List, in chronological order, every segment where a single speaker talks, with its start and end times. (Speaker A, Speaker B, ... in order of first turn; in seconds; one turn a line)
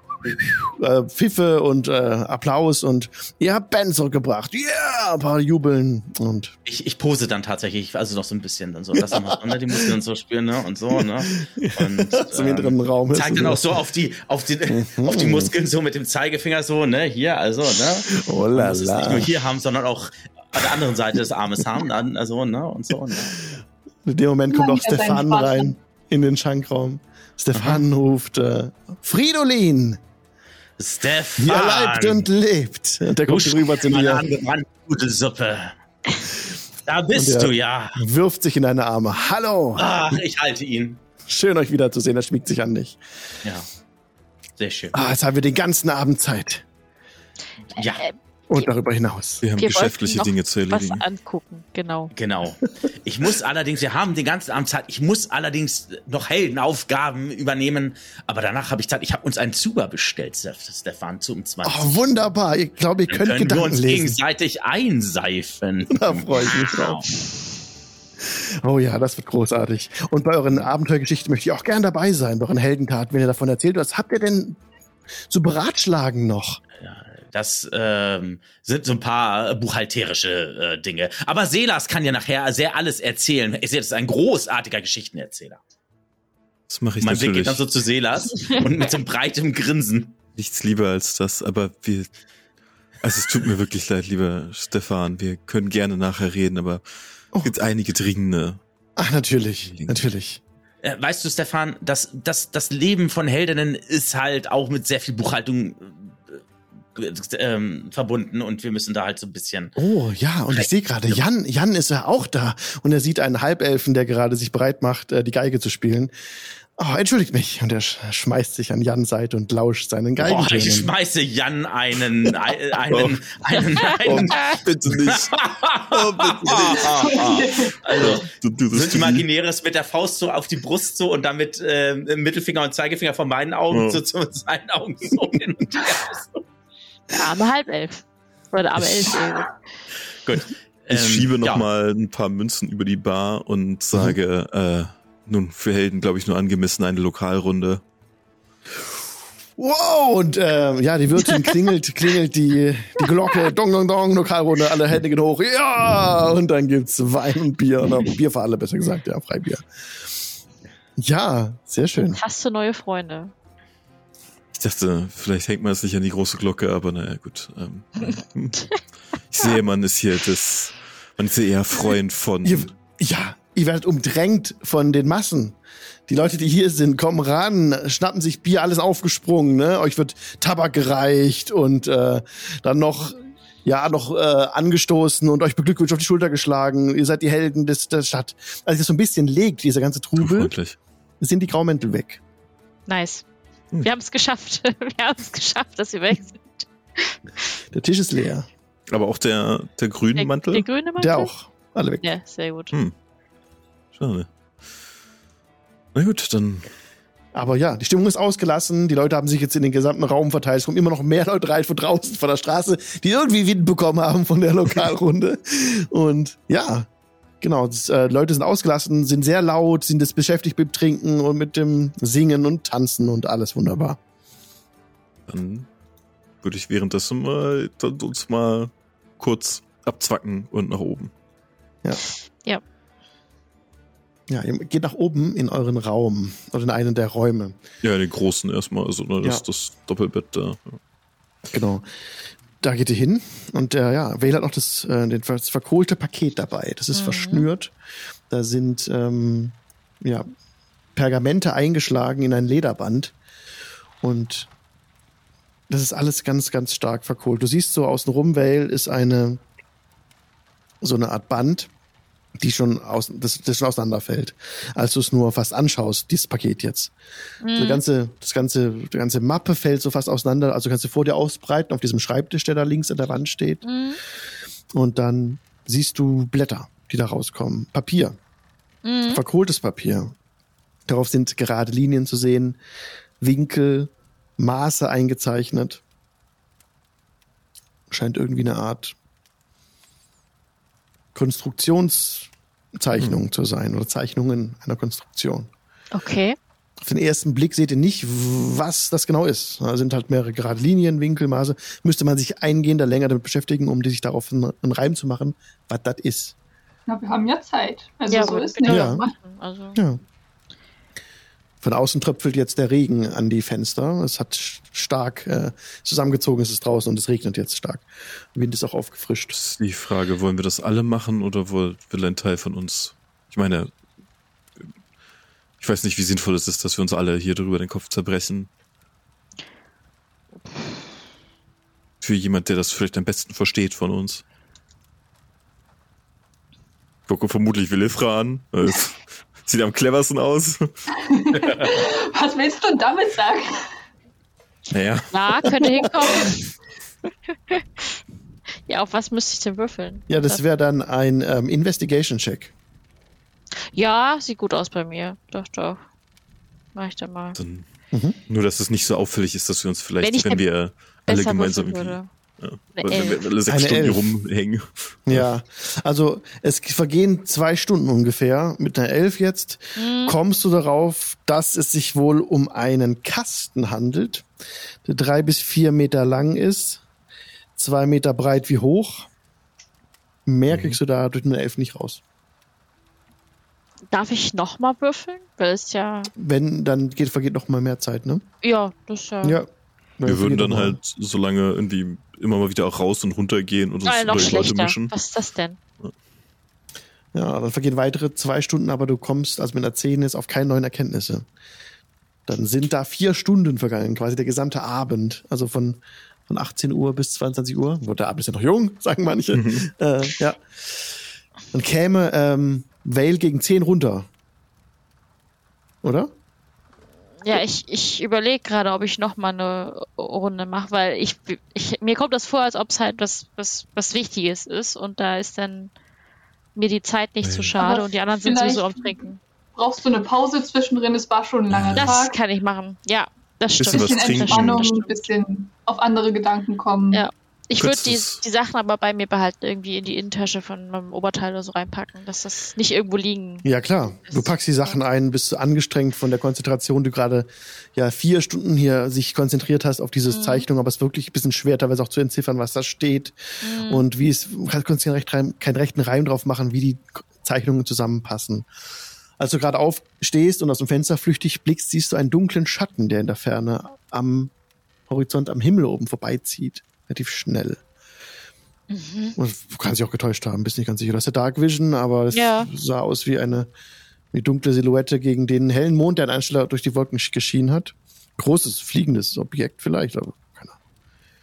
Speaker A: 0.2-6.5
Speaker B: 6.7-23.4
Speaker A: 9.0-9.9
Speaker A: 11.0-13.8
Speaker A: 14.7-15.5
Speaker A: 18.1-19.3
Speaker A: 24.1-30.0
Speaker C: 24.5-25.7
Speaker B: 27.5-27.8
Speaker B: 30.8-32.3
Speaker A: 31.4-34.2
Speaker B: 33.2-35.7
Speaker B: 36.9-37.9
Speaker A: 37.1-40.0
Speaker B: 39.8-41.0
Speaker A: 41.2-43.0
Speaker B: 44.6-45.0
Speaker A: 44.9-46.6
Speaker B: 47.7-48.0
Speaker D: 47.8-48.7
Speaker A: 48.5-49.4
Speaker E: 49.4-51.0
Speaker D: 49.5-52.1
Speaker B: 52.1-62.2
Speaker A: 61.6-64.2
Speaker B: 63.1-67.1
Speaker A: 65.9-67.0
Speaker A: 68.2-74.6
Speaker A: 75.3-76.6
Speaker B: 76.8-85.6
Speaker E: 86.7-87.6
Speaker B: 87.0-90.1
Speaker E: 90.3-92.1
Speaker E: 93.0-96.8
Speaker E: 97.4-98.6
Speaker A: 99.0-100.4
Speaker E: 99.7-100.0
Speaker B: 100.8-106.4
Speaker B: 106.9-109.8
Speaker A: 109.8-116.1
Speaker B: 110.5-111.2
Speaker A: 116.8-120.9
Speaker B: 120.2-136.4
Speaker E: 122.9-123.2
Speaker E: 124.0-127.1
Speaker C: 126.8-128.1
Speaker E: 127.9-129.2
Speaker E: 133.7-134.0
Speaker D: 137.1-139.6
Speaker E: 138.8-139.1
Speaker B: 140.2-141.6
Speaker E: 140.9-147.8
Speaker A: 149.6-159.7
Speaker A: 161.0-162.2
Speaker D: 162.1-163.3
Speaker E: 164.5-168.7
Speaker E: 169.3-172.7
Speaker A: 172.4-175.6
Speaker A: 176.1-190.5
Speaker E: 190.2-190.8
Speaker A: 191.2-192.2
Speaker D: 192.9-193.2
Speaker D: 193.8-197.2
Speaker A: 197.7-198.5
Speaker E: 198.9-200.7
Speaker D: 200.2-201.3
Speaker A: 201.0-202.1
Speaker D: 202.0-202.7
Speaker E: 203.9-204.3
Speaker E: 205.9-206.7
Speaker A: 207.3-216.9
Speaker A: 217.4-224.0
Speaker E: 225.3-225.7
Speaker E: 226.4-231.1
Speaker A: 234.3-237.6
Speaker E: 237.8-240.8
Speaker A: 241.5-241.8
Speaker A: 242.6-247.7
Speaker D: 246.9-247.5
Speaker A: 248.3-250.3
Speaker A: 250.9-253.1
Speaker A: 254.0-254.5
Speaker A: 255.7-259.4
Speaker A: 260.8-261.7
Speaker A: 262.4-266.9
Speaker D: 267.4-267.8
Speaker A: 267.5-273.6
Speaker D: 273.6-274.0
Speaker A: 274.7-278.2
Speaker D: 278.8-279.2
Speaker A: 279.1-280.1
Speaker A: 280.9-282.6
Speaker A: 283.2-285.8
Speaker A: 287.9-288.9
Speaker A: 291.1-295.5
Speaker E: 292.9-293.2
Speaker D: 295.9-296.4
Speaker A: 296.8-306.3
Speaker C: 306.9-309.1
Speaker D: 308.1-309.8
Speaker A: 308.6-309.0
Speaker A: 309.7-310.0
Speaker A: 311.6-319.4
Speaker E: 319.3-323.7
Speaker E: 325.6-328.5
Speaker E: 332.0-334.2
Speaker E: 337.1-340.7
Speaker C: 341.1-343.6
Speaker B: 341.3-341.9
Speaker E: 344.7-345.4
Speaker D: 345.1-346.5
Speaker D: 347.5-347.9
Speaker D: 348.7-350.4
Speaker A: 350.1-352.5
Speaker D: 353.7-355.8
Speaker D: 356.7-357.4
Speaker E: 357.3-357.6
Speaker A: 357.9-358.2
Speaker E: 358.3-365.3
Speaker D: 360.0-360.4
Speaker D: 361.1-362.1
Speaker D: 362.7-363.3
Speaker A: 363.5-364.1
Speaker A: 365.1-374.3
Speaker D: 369.8-370.2
Speaker A: 374.8-376.8
Speaker A: 377.6-379.1
Speaker A: 380.2-382.0
Speaker E: 380.5-380.8
Speaker D: 383.9-386.1
Speaker A: 386.1-388.2
Speaker D: 388.4-389.4
Speaker A: 390.0-390.8
Speaker E: 390.1-394.9
Speaker D: 393.8-395.6
Speaker A: 397.1-401.2
Speaker A: 402.3-410.7
Speaker E: 409.3-409.6
Speaker A: 411.5-414.1
Speaker A: 415.8-416.1
Speaker D: 417.2-425.7
Speaker D: 426.5-429.2
Speaker E: 427.2-427.6
Speaker C: 427.6-428.9
Speaker C: 429.6-432.2
Speaker E: 431.5-432.0
Speaker D: 431.7-435.0
Speaker E: 433.6-434.7
Speaker C: 433.7-437.0
Speaker D: 436.9-443.5
Speaker E: 437.6-438.2
Speaker A: 443.4-458.5
Speaker D: 444.1-444.7
Speaker D: 450.1-450.4
Speaker D: 453.4-453.9
Speaker A: 459.2-464.3
Speaker A: 464.9-467.6
Speaker D: 468.7-469.2
Speaker A: 469.2-473.5
Speaker D: 472.1-472.5
Speaker A: 474.1-480.6